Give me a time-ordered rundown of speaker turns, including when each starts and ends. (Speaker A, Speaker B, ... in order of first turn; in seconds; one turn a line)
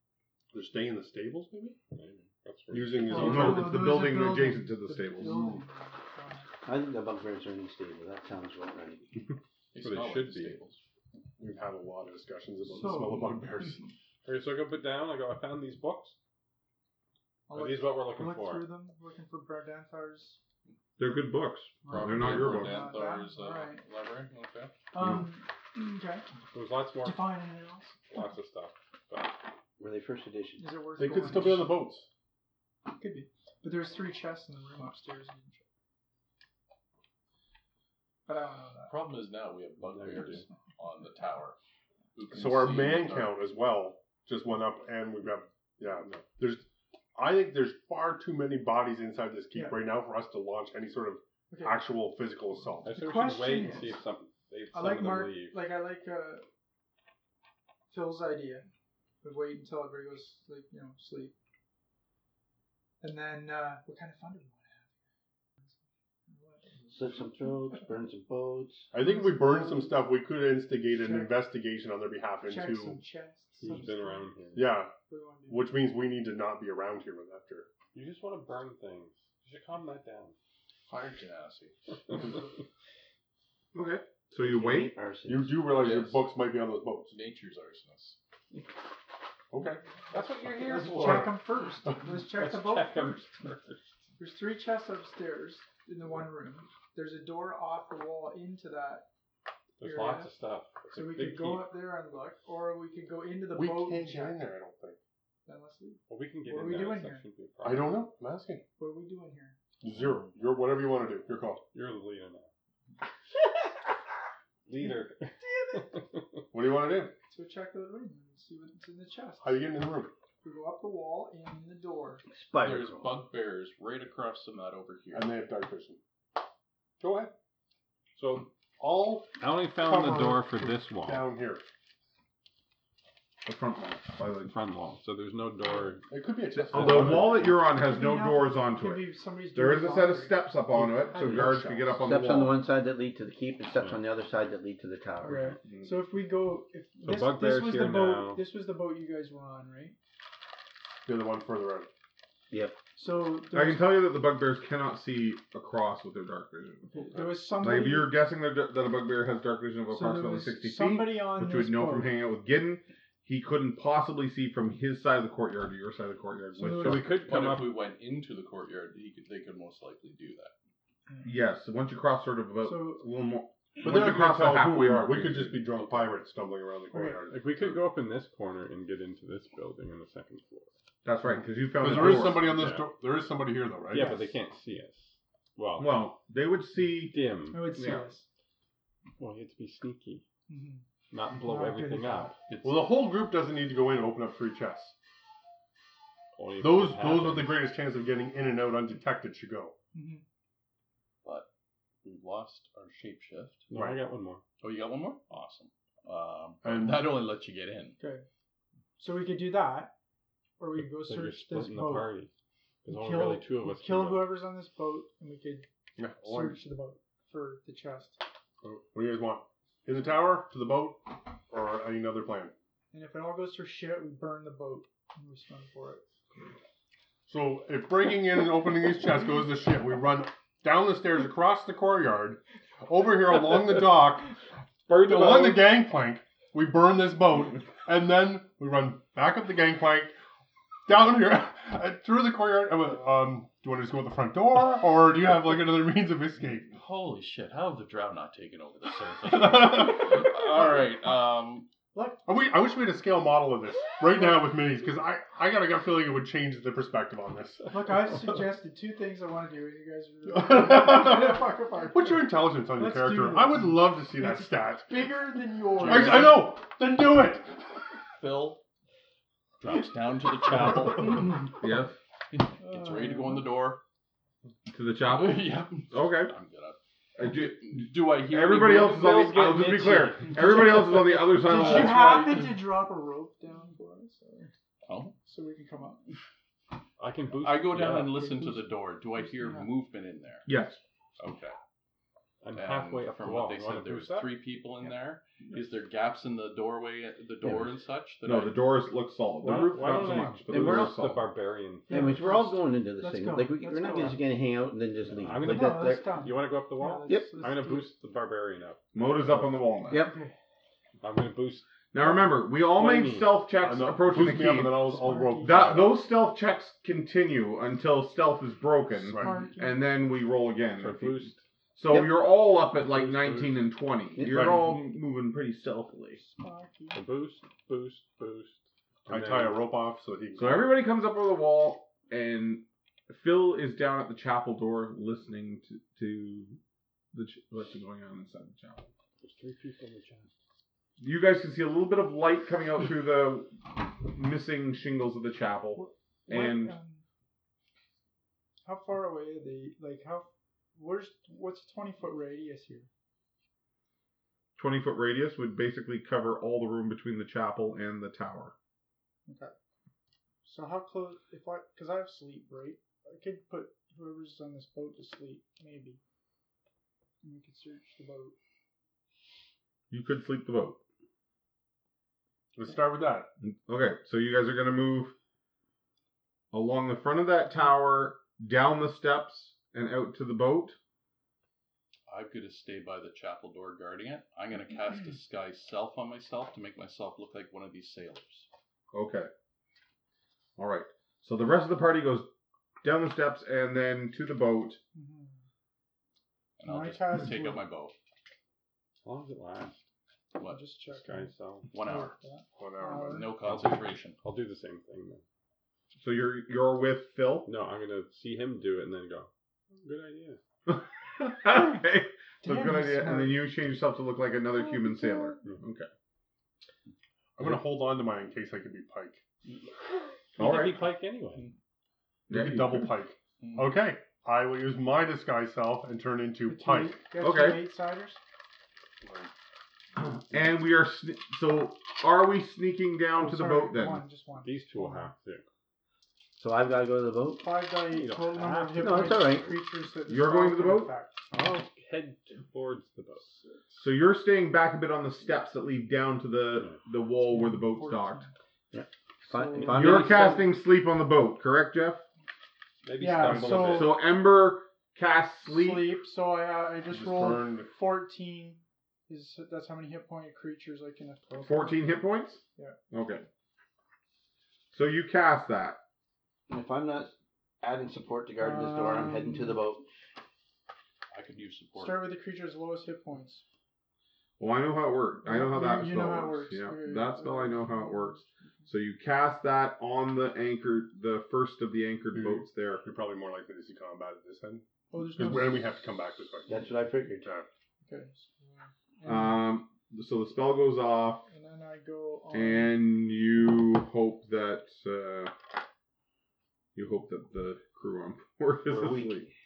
Speaker A: 0.5-1.8
Speaker B: 1.9-3.6
Speaker A: 2.7-3.9
Speaker C: 3.1-6.5
Speaker D: 3.1-5.5
Speaker E: 6.6-9.1
Speaker F: 9.7-10.8
Speaker B: 9.8-10.6
Speaker A: 11.4-13.9
Speaker C: 12.7-13.3
Speaker B: 14.2-16.1
Speaker C: 17.5-20.4
Speaker B: 17.5-18.7
Speaker D: 21.0-22.9
Speaker C: 21.8-23.8
Speaker F: 21.9-24.7
Speaker C: 24.9-26.2
Speaker B: 26.5-27.3
Speaker C: 27.0-28.0
Speaker B: 28.1-29.4
Speaker E: 29.8-30.6
Speaker C: 30.6-31.8
Speaker A: 31.0-32.1
Speaker C: 32.9-35.6
Speaker C: 38.2-39.0
Speaker F: 38.9-41.6
Speaker B: 39.8-40.4
Speaker F: 42.1-43.4
Speaker A: 42.3-52.9
Speaker C: 49.5-49.8
Speaker C: 51.5-51.9
Speaker B: 52.8-55.7
Speaker C: 52.9-54.0
Speaker C: 54.7-56.4
Speaker C: 57.9-58.7
Speaker C: 59.2-61.3
Speaker C: 63.0-65.0
Speaker C: 66.3-66.7
Speaker E: 66.9-68.9
Speaker A: 68.9-73.0
Speaker C: 69.0-70.1
Speaker C: 70.9-71.4
Speaker C: 72.4-74.3
Speaker B: 73.6-74.8
Speaker A: 74.5-74.9
Speaker C: 75.1-75.8
Speaker A: 75.5-77.7
Speaker B: 77.9-80.3
Speaker F: 80.9-81.8
Speaker D: 83.7-84.9
Speaker E: 84.4-85.7
Speaker A: 85.3-87.1
Speaker F: 85.7-86.3
Speaker F: 87.1-88.2
Speaker A: 89.5-89.8
Speaker B: 90.1-91.4
Speaker C: 90.6-93.2
Speaker B: 92.0-93.8
Speaker C: 94.2-99.1
Speaker B: 99.8-101.7
Speaker C: 99.8-100.3
Speaker C: 100.9-104.4
Speaker A: 103.5-105.0
Speaker C: 105.5-107.3
Speaker B: 106.1-108.1
Speaker A: 107.6-108.6
Speaker C: 108.8-109.5
Speaker A: 109.8-111.6
Speaker B: 111.7-112.5
Speaker B: 114.7-116.4
Speaker C: 115.4-116.0
Speaker A: 116.5-117.1
Speaker C: 117.3-119.6
Speaker A: 119.4-120.1
Speaker C: 120.4-122.2
Speaker E: 122.3-123.2
Speaker F: 122.5-125.3
Speaker A: 125.1-126.0
Speaker A: 127.0-127.3
Speaker B: 128.2-128.5
Speaker A: 128.8-131.6
Speaker B: 129.4-131.3
Speaker D: 133.4-134.5
Speaker B: 134.4-136.1
Speaker A: 136.1-137.6
Speaker D: 136.5-142.6
Speaker B: 136.7-137.4
Speaker C: 137.6-140.4
Speaker A: 140.7-142.0
Speaker E: 142.0-145.5
Speaker C: 145.2-149.9
Speaker D: 145.7-146.0
Speaker B: 147.0-148.4
Speaker A: 151.0-151.9
Speaker E: 152.5-152.8
Speaker C: 152.9-153.9
Speaker D: 153.5-156.9
Speaker C: 156.9-158.2
Speaker D: 157.5-167.2
Speaker C: 159.9-162.1
Speaker C: 166.6-167.0
Speaker B: 166.7-167.8
Speaker F: 167.2-170.5
Speaker D: 171.2-175.7
Speaker C: 172.6-173.0
Speaker A: 173.8-177.8
Speaker C: 176.9-177.2
Speaker B: 177.3-180.7
Speaker D: 181.0-182.6
Speaker A: 181.8-184.3
Speaker B: 181.9-182.9
Speaker B: 183.9-185.9
Speaker D: 185.8-187.2
Speaker B: 187.0-187.9
Speaker C: 187.5-188.2
Speaker D: 187.8-188.1
Speaker B: 189.2-190.2
Speaker C: 190.5-192.3
Speaker B: 191.1-192.5
Speaker A: 192.6-194.9
Speaker B: 196.3-197.6
Speaker A: 196.6-199.7
Speaker C: 199.9-200.2
Speaker F: 202.0-203.7
Speaker B: 203.7-204.4
Speaker A: 203.7-204.0
Speaker F: 204.6-208.0
Speaker A: 206.6-207.2
Speaker C: 208.0-208.2
Speaker C: 209.0-209.9
Speaker C: 210.6-212.2
Speaker B: 210.8-212.3
Speaker B: 212.8-214.3
Speaker C: 212.9-215.7
Speaker A: 216.0-216.6
Speaker C: 216.2-218.2
Speaker A: 218.6-222.5
Speaker C: 222.9-226.0
Speaker A: 227.3-234.3
Speaker A: 234.9-240.1
Speaker A: 240.8-246.7
Speaker F: 246.7-251.7
Speaker A: 249.3-250.0
Speaker C: 251.9-252.2
Speaker A: 252.2-257.7
Speaker C: 257.7-266.4
Speaker A: 260.3-265.0
Speaker F: 265.8-266.4
Speaker A: 265.8-267.8
Speaker F: 268.2-268.6
Speaker F: 269.6-271.6
Speaker D: 271.6-271.9
Speaker F: 272.3-273.8
Speaker C: 272.6-273.5
Speaker D: 274.7-276.3
Speaker F: 275.0-279.9
Speaker D: 277.2-282.1
Speaker B: 279.3-280.4
Speaker C: 281.2-284.5
Speaker F: 281.5-282.6
Speaker F: 284.9-285.1
Speaker C: 285.2-286.1
Speaker B: 287.0-288.3
Speaker F: 287.4-290.5
Speaker C: 287.8-288.6
Speaker C: 289.2-289.7
Speaker D: 290.4-290.8
Speaker F: 291.2-291.6
Speaker B: 292.4-294.4
Speaker F: 292.5-298.7
Speaker E: 297.4-297.7
Speaker D: 298.2-301.3
Speaker B: 299.4-302.2
Speaker E: 300.5-300.9
Speaker C: 301.9-304.2
Speaker E: 301.9-306.2
Speaker B: 305.1-309.7
Speaker C: 305.4-307.9
Speaker E: 307.1-307.4
Speaker D: 308.9-310.0
Speaker E: 309.9-310.1
Speaker C: 309.9-310.3
Speaker B: 311.0-311.7
Speaker D: 311.9-326.2
Speaker B: 312.6-313.4
Speaker A: 313.6-315.9
Speaker C: 314.6-315.9
Speaker A: 319.0-319.4
Speaker C: 319.2-319.8
Speaker B: 320.8-321.4
Speaker B: 322.7-323.6
Speaker E: 324.2-324.6
Speaker C: 326.1-327.0
Speaker B: 326.9-329.6
Speaker A: 329.1-330.7
Speaker D: 330.4-336.6
Speaker D: 337.1-338.9
Speaker B: 339.2-340.3
Speaker D: 341.0-346.7
Speaker C: 345.7-347.0
Speaker C: 348.6-352.9
Speaker D: 354.6-358.5
Speaker C: 359.3-359.5
Speaker C: 360.4-366.0
Speaker C: 367.2-368.3
Speaker D: 369.9-370.8
Speaker A: 372.5-373.3
Speaker D: 373.4-375.1
Speaker D: 376.5-380.8
Speaker F: 382.1-388.5
Speaker D: 388.9-389.3
Speaker D: 390.6-392.3
Speaker D: 392.8-394.8
Speaker C: 394.9-395.4
Speaker F: 396.6-397.9
Speaker C: 396.6-397.6
Speaker B: 399.0-399.8
Speaker F: 400.3-400.6
Speaker C: 400.4-403.4
Speaker B: 400.9-401.7
Speaker F: 401.7-402.1
Speaker A: 402.6-403.3
Speaker F: 403.0-404.2
Speaker B: 403.4-405.2
Speaker D: 405.9-407.5
Speaker B: 407.4-410.4
Speaker D: 410.7-415.9
Speaker C: 412.4-413.5
Speaker C: 414.7-415.4
Speaker A: 417.4-419.2
Speaker B: 420.4-421.5
Speaker D: 420.4-420.9
Speaker D: 422.3-422.9
Speaker A: 422.3-427.0
Speaker F: 423.4-423.7
Speaker C: 426.5-428.2
Speaker D: 427.2-427.7
Speaker A: 429.0-429.3
Speaker D: 429.9-434.0
Speaker C: 433.1-435.1
Speaker B: 434.4-435.4
Speaker E: 436.4-437.5
Speaker C: 437.4-441.3
Speaker B: 437.8-439.4
Speaker E: 438.8-439.6
Speaker D: 440.1-440.9
Speaker B: 441.3-443.3
Speaker C: 443.2-443.8
Speaker D: 443.8-448.2
Speaker C: 447.2-448.3
Speaker E: 448.7-450.5
Speaker C: 449.2-450.4
Speaker D: 449.7-452.0
Speaker B: 452.8-453.9
Speaker C: 453.0-453.9
Speaker D: 453.2-456.0
Speaker C: 455.4-461.9
Speaker A: 456.9-457.7
Speaker D: 461.4-463.2
Speaker D: 464.7-465.8
Speaker E: 466.5-469.8
Speaker C: 468.4-469.6
Speaker F: 471.1-472.0
Speaker C: 471.8-473.4
Speaker D: 474.4-482.8
Speaker C: 475.2-478.2
Speaker A: 482.1-486.6
Speaker C: 484.9-485.7
Speaker E: 486.5-487.3
Speaker A: 487.2-487.5
Speaker C: 487.8-489.4
Speaker D: 489.0-491.2
Speaker C: 491.3-492.8
Speaker D: 492.3-495.3
Speaker D: 496.7-499.3
Speaker E: 498.7-499.2